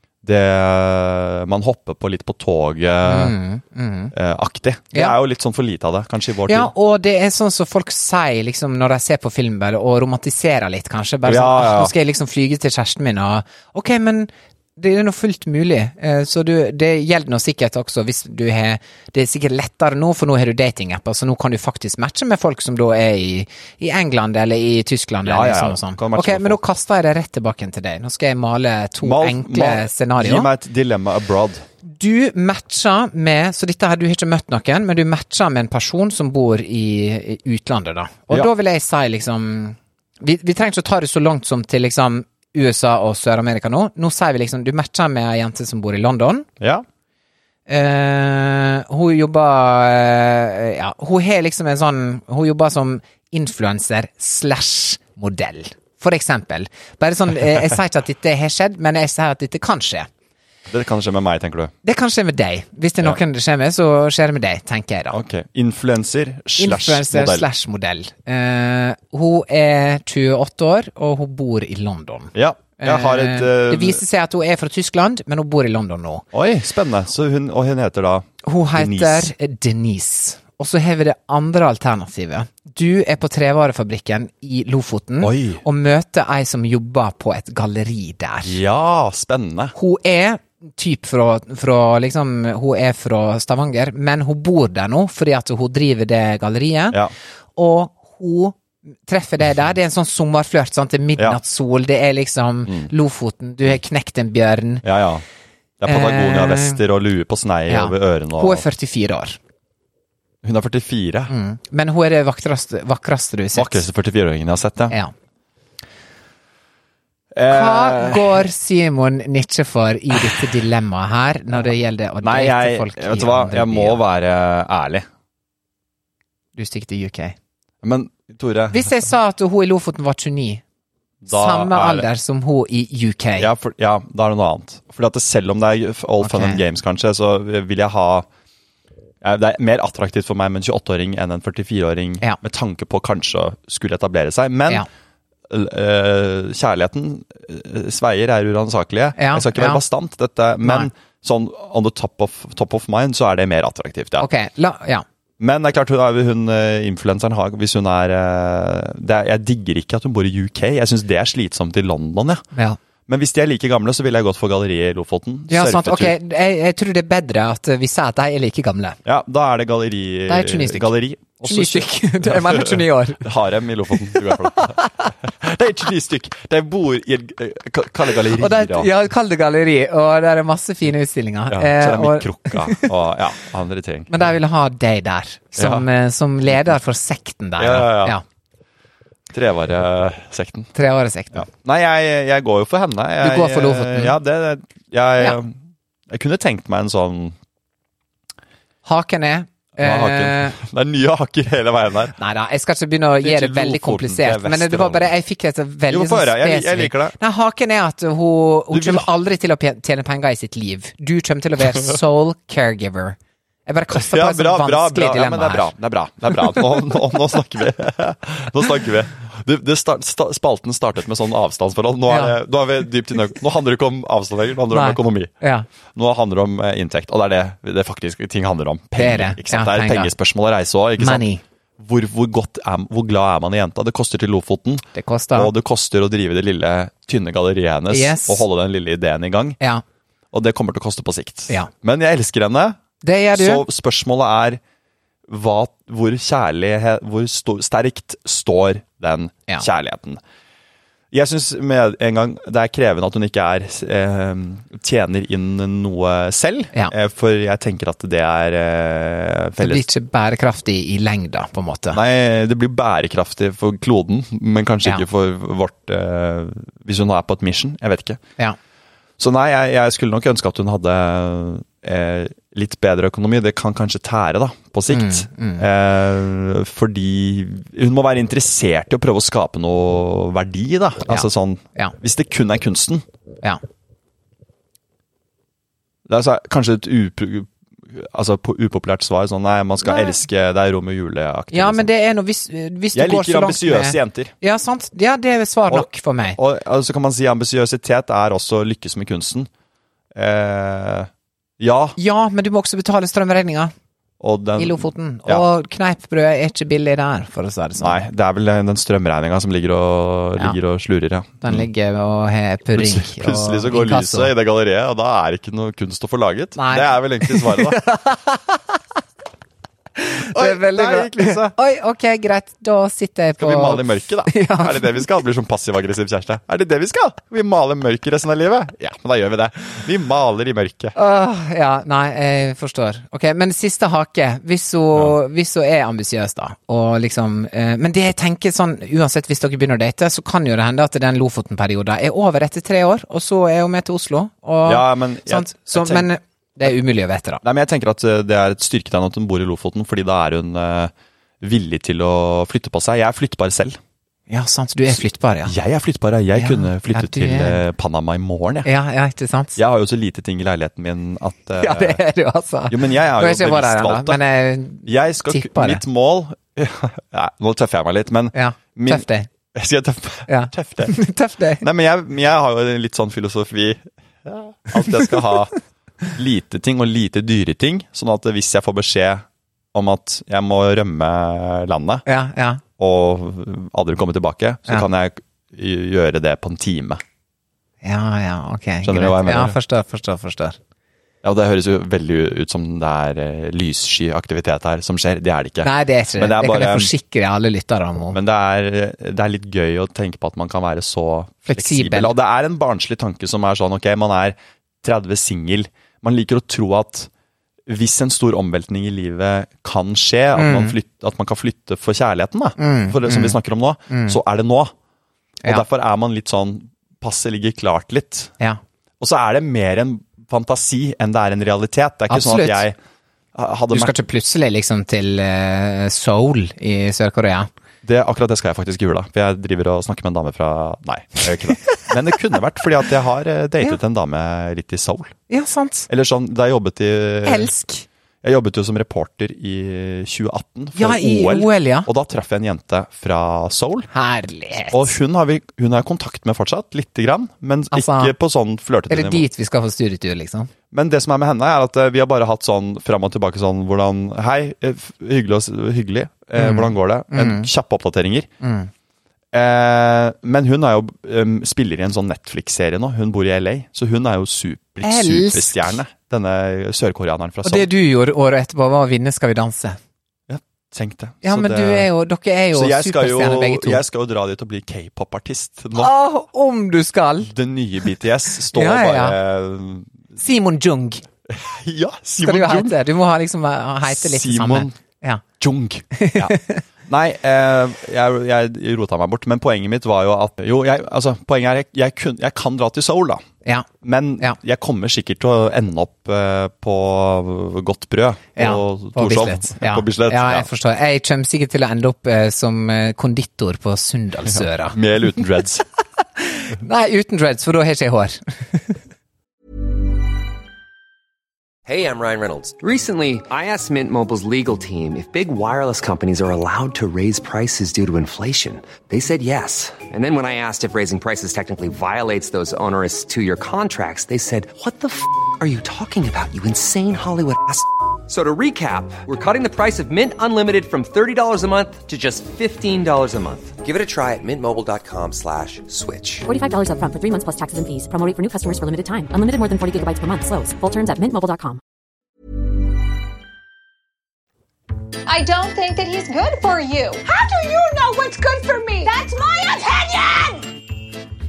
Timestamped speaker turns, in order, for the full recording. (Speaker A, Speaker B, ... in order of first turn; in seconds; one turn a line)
Speaker A: 0.2-3.3
Speaker B: 3.0-4.1
Speaker A: 4.1-6.7
Speaker B: 6.5-30.5
Speaker A: 11.2-11.9
Speaker A: 25.2-26.6
Speaker A: 29.0-31.6
Speaker B: 31.8-46.5
Speaker A: 46.6-46.8
Speaker B: 47.7-60.1
Speaker A: 60.7-61.7
Speaker B: 61.8-65.2
Speaker A: 65.1-67.5
Speaker B: 66.6-76.2
Speaker A: 72.3-74.0
Speaker A: 76.3-79.3
Speaker B: 78.4-88.6
Speaker A: 85.2-85.6
Speaker A: 88.4-89.7
Speaker B: 89.7-97.0
Speaker B: 97.5-104.8
Speaker A: 104.8-105.2
Speaker A: 105.8-108.6
Speaker B: 105.8-106.8
Speaker B: 107.7-109.4
Speaker A: 110.4-111.3
Speaker B: 111.3-113.8
Speaker A: 113.5-115.0
Speaker A: 117.3-118.4
Speaker B: 117.5-124.0
Speaker A: 122.2-125.1
Speaker B: 126.5-127.3
Speaker A: 127.8-128.9
Speaker B: 128.7-130.6
Speaker A: 131.2-132.1
Speaker B: 131.3-133.5
Speaker A: 133.4-138.3
Speaker B: 136.2-136.6
Speaker A: 139.2-144.8
Speaker A: 145.5-154.3
Speaker B: 149.2-149.8
Speaker B: 150.6-150.9
Speaker B: 154.2-155.0
Speaker A: 155.4-162.4
Speaker A: 163.1-166.1
Speaker B: 165.5-169.0
Speaker A: 169.0-178.9
Speaker B: 170.3-173.3
Speaker B: 174.1-175.1
Speaker B: 178.3-182.9
Speaker A: 181.5-184.1
Speaker B: 184.1-188.2
Speaker A: 185.6-185.8
Speaker A: 187.6-188.2
Speaker A: 189.3-190.7
Speaker B: 190.7-191.5
Speaker A: 191.3-195.6
Speaker B: 193.2-194.1
Speaker A: 196.1-197.3
Speaker B: 198.8-200.6
Speaker A: 199.8-202.2
Speaker B: 202.2-215.7
Speaker A: 203.2-205.1
Speaker A: 205.9-207.1
Speaker A: 208.7-209.1
Speaker A: 213.9-225.3
Speaker B: 222.1-222.3
Speaker B: 224.7-225.7
Speaker A: 225.9-231.2
Speaker B: 228.9-230.1
Speaker B: 231.0-231.4
Speaker A: 231.8-239.6
Speaker B: 234.9-235.5
Speaker B: 237.9-238.4
Speaker A: 240.3-242.8
Speaker B: 243.0-243.6
Speaker A: 243.3-244.6
Speaker A: 245.3-250.2
Speaker A: 251.1-259.9
Speaker B: 259.6-262.0
Speaker A: 261.9-268.2
Speaker A: 269.2-283.0
Speaker B: 274.9-275.6
Speaker B: 281.1-281.9
Speaker A: 286.1-291.9
Speaker B: 289.8-290.2
Speaker B: 291.5-296.4
Speaker A: 292.9-294.3
Speaker A: 295.7-299.5
Speaker A: 300.1-302.0
Speaker B: 302.0-303.7
Speaker A: 304.2-305.4
Speaker B: 304.6-308.0
Speaker A: 307.8-311.6
Speaker B: 311.4-314.3
Speaker A: 312.7-317.8
Speaker B: 316.6-318.8
Speaker B: 320.0-325.1
Speaker A: 320.3-321.5
Speaker A: 323.4-330.9
Speaker B: 330.9-347.4
Speaker A: 344.6-346.1
Speaker A: 347.4-353.8
Speaker B: 354.3-355.5
Speaker A: 355.4-358.7
Speaker B: 356.3-357.6
Speaker B: 358.6-359.6
Speaker A: 359.6-362.0
Speaker B: 361.6-365.8
Speaker A: 362.7-364.2
Speaker A: 364.8-371.0
Speaker B: 368.3-369.3
Speaker B: 370.3-371.6
Speaker A: 371.6-375.5
Speaker A: 376.1-382.1
Speaker B: 382.1-382.6
Speaker A: 382.8-387.0
Speaker B: 387.8-390.6
Speaker A: 388.8-389.6
Speaker A: 391.2-396.9
Speaker B: 395.6-398.2
Speaker A: 398.1-407.1
Speaker B: 401.5-402.1
Speaker A: 407.7-414.7
Speaker B: 410.3-410.8
Speaker B: 412.6-413.4
Speaker B: 413.9-414.2
Speaker A: 415.4-418.3
Speaker A: 419.0-422.8
Speaker B: 422.1-422.6
Speaker A: 423.3-423.9
Speaker B: 423.7-427.5
Speaker A: 427.8-435.1
Speaker B: 435.3-435.9
Speaker A: 435.9-437.5
Speaker B: 437.2-437.9
Speaker A: 438.2-443.9
Speaker B: 440.8-441.9
Speaker B: 443.9-444.9
Speaker A: 444.7-449.2
Speaker B: 447.7-448.1
Speaker B: 448.9-450.5
Speaker A: 450.7-458.3
Speaker B: 456.4-457.5
Speaker B: 458.4-458.7
Speaker A: 459.3-467.7
Speaker B: 464.8-465.8
Speaker B: 467.4-469.8
Speaker A: 470.3-471.9
Speaker B: 471.2-473.8
Speaker A: 472.5-475.9
Speaker B: 475.7-477.3
Speaker A: 477.2-479.9
Speaker B: 478.5-479.2
Speaker B: 480.1-481.0
Speaker A: 481.3-482.8
Speaker B: 482.2-485.2
Speaker A: 483.9-484.8
Speaker A: 485.4-493.2
Speaker B: 485.9-486.6
Speaker A: 493.8-500.5
Speaker B: 498.4-504.8
Speaker A: 504.2-505.6
Speaker B: 506.2-508.8
Speaker C: 511.6-536.2
Speaker D: 536.2-541.6
Speaker E: 545.0-550.5